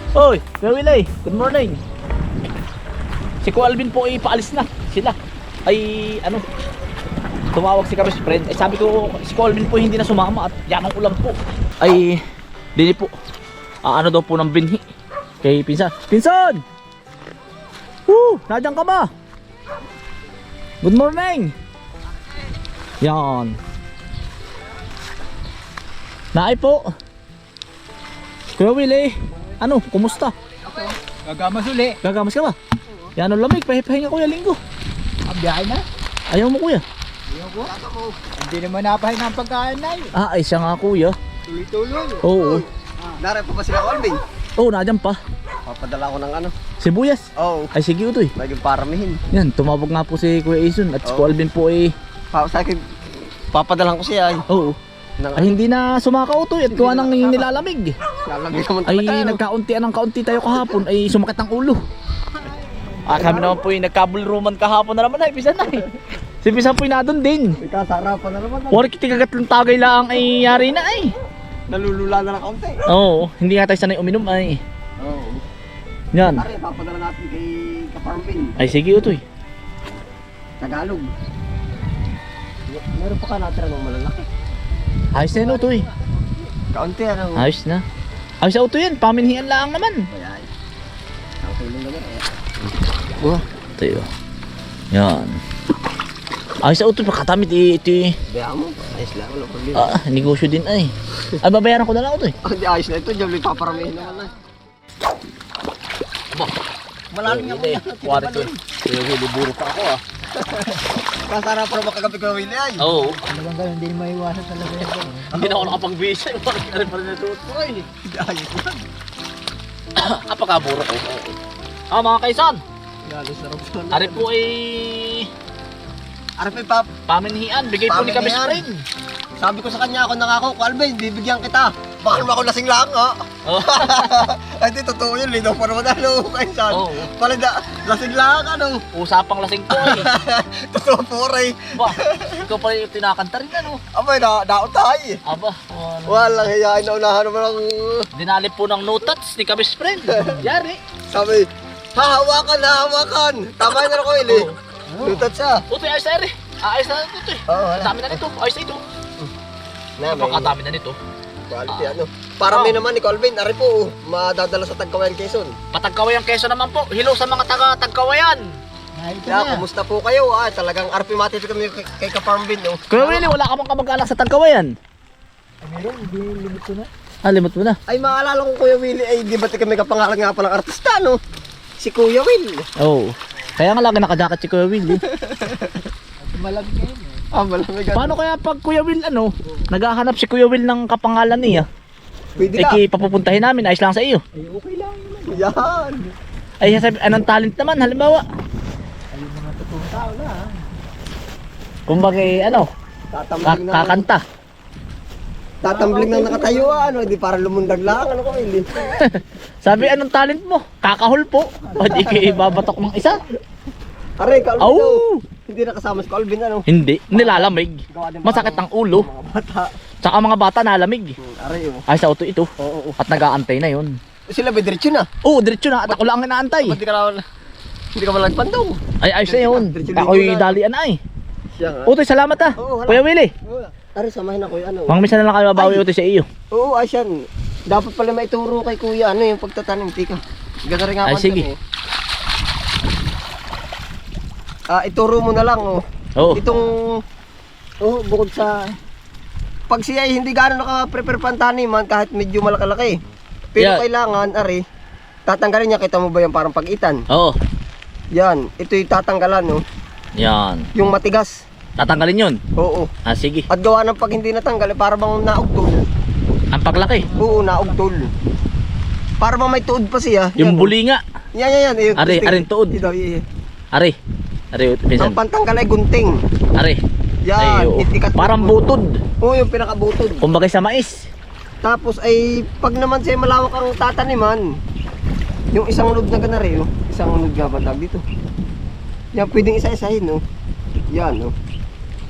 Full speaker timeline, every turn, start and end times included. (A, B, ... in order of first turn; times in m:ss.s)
0:00.1-0:01.8 A
0:03.4-0:06.4 A
0:07.5-0:12.2 A
0:12.8-0:13.1 A
0:13.8-0:14.8 A
0:15.4-0:16.6 A
0:18.1-0:19.1 A
0:20.8-0:21.5 A
0:23.0-0:23.6 A
0:26.3-0:26.9 A
0:28.6-0:30.3 A
0:31.1-0:32.0 B
0:32.0-0:32.6 A
0:33.2-0:34.6 A
0:35.2-0:35.8 B
0:36.3-0:36.8 A
0:37.3-0:37.7 B
0:37.6-0:38.2 C
0:38.4-0:40.1 B
0:40.1-0:41.2 A
0:41.5-0:42.6 C
0:41.7-0:42.1 B
0:42.2-0:42.6 A
0:43.2-0:44.2 C
0:44.6-0:45.2 A
0:45.6-0:46.5 C
0:46.8-0:48.3 A
0:47.4-0:47.7 C
0:48.4-0:49.2 C
0:49.3-0:51.9 A
0:51.0-0:51.3 C
0:52.3-0:52.8 C
0:53.5-0:54.4 C
0:54.5-0:54.8 A
0:55.2-0:55.5 C
0:55.4-0:57.9 A
0:56.7-0:57.6 C
0:58.2-0:59.4 C
0:58.8-1:01.8 A
1:03.0-1:05.9 A
1:03.1-1:03.6 C
1:06.4-1:07.6 A
1:07.6-1:08.9 C
1:08.7-1:11.1 A
1:11.7-1:12.9 C
1:12.9-1:14.6 A
1:15.0-1:15.4 C
1:16.1-1:16.4 A
1:16.4-1:18.6 C
1:18.6-1:19.2 A
1:20.6-1:21.1 C
1:22.7-1:24.2 C
1:25.1-1:25.8 A
1:25.3-1:26.0 C
1:26.6-1:27.5 C
1:27.4-1:27.8 A
1:28.4-1:30.0 A
1:30.1-1:30.5 C
1:31.4-1:32.2 C
1:33.8-1:34.1 A
1:34.9-1:35.4 A
1:36.6-1:38.2 A
1:38.3-1:40.0 C
1:39.7-1:42.3 A
1:42.4-1:44.3 C
1:47.1-1:48.6 C
1:47.2-1:50.0 A
1:50.4-1:52.9 C
1:52.8-1:53.2 A
1:53.3-1:55.3 B
1:55.3-1:57.9 A
1:55.3-1:55.7 C
1:58.0-1:58.8 C
2:00.0-2:01.4 A
2:01.9-2:02.6 A
2:03.0-2:04.3 C
2:03.9-2:05.3 A
2:06.4-2:06.9 C
2:07.1-2:08.8 A
2:07.9-2:08.6 C
2:09.4-2:18.8 C
2:13.4-2:14.0 A
2:16.7-2:17.1 A
2:18.9-2:20.1 A
2:19.7-2:22.4 C
2:21.7-2:23.8 A
2:23.9-2:25.2 C
2:25.2-2:26.4 A
2:26.0-2:28.1 C
2:28.1-2:30.8 A
2:31.1-2:35.6 C
2:34.3-2:34.6 A
2:35.7-2:38.8 A
2:37.5-2:38.2 C
2:40.0-2:40.5 C
2:40.0-2:41.0 A
2:41.5-2:45.5 C
2:42.5-2:42.8 A
2:45.7-2:48.6 A
2:49.0-2:49.6 B
2:49.2-2:53.2 C
2:52.9-2:54.7 A
2:55.6-2:56.9 B
2:57.2-2:57.8 A
2:57.9-3:01.2 C
3:01.8-3:02.7 C
3:02.8-3:05.0 A
3:05.1-3:05.8 C
3:06.2-3:07.2 B
3:07.3-3:08.2 C
3:07.9-3:11.6 A
3:12.4-3:12.8 C
3:12.5-3:14.2 A
3:14.4-3:15.4 B
3:15.3-3:16.0 C
3:16.6-3:18.2 A
3:19.1-3:20.6 B
3:21.9-3:22.7 A
3:23.1-3:24.1 C
3:23.4-3:24.2 A
3:25.6-3:29.0 C
3:25.7-3:26.7 B
3:29.0-3:33.2 A
3:31.8-3:32.5 C
3:34.2-3:39.7 C
3:34.6-3:35.2 A
3:36.7-3:39.1 A
3:40.0-3:41.2 A
3:41.2-3:41.8 C
3:41.9-3:43.9 A
3:42.6-3:43.0 C
3:44.3-3:45.1 C
3:45.2-3:46.8 A
3:46.6-3:47.2 C
3:47.9-3:50.6 C
3:49.0-3:51.0 A
3:51.5-3:51.9 C
3:51.9-3:53.3 A
3:52.6-3:55.8 C
3:54.9-3:56.3 A
3:56.5-3:57.1 C
3:57.7-4:01.5 C
4:01.0-4:01.4 A
4:04.7-4:05.8 C
4:06.2-4:06.4 A
4:06.3-4:07.0 C
4:07.8-4:08.8 C
4:09.7-4:13.0 C
4:13.5-4:14.6 C
4:13.6-4:13.8 A
4:15.3-4:17.0 C
4:17.1-4:17.4 A
4:18.1-4:19.6 C
4:20.2-4:20.7 A
4:20.7-4:21.4 C
4:21.8-4:22.4 A
4:22.6-4:22.9 C
4:23.0-4:23.5 A
4:23.5-4:25.8 C
4:26.5-4:27.1 A
4:27.1-4:28.1 C
4:29.2-4:30.7 C
4:30.4-4:31.0 A
4:31.3-4:33.2 C
4:32.0-4:32.8 A
4:34.5-4:35.2 A
4:35.0-4:36.2 C
4:36.6-4:36.8 A
4:37.2-4:38.6 C
4:37.4-4:39.0 A
4:39.2-4:40.2 C
4:40.2-4:41.0 A
4:41.6-4:44.4 C
4:45.5-4:48.0 C
4:49.1-4:50.2 C
4:50.9-4:51.3 C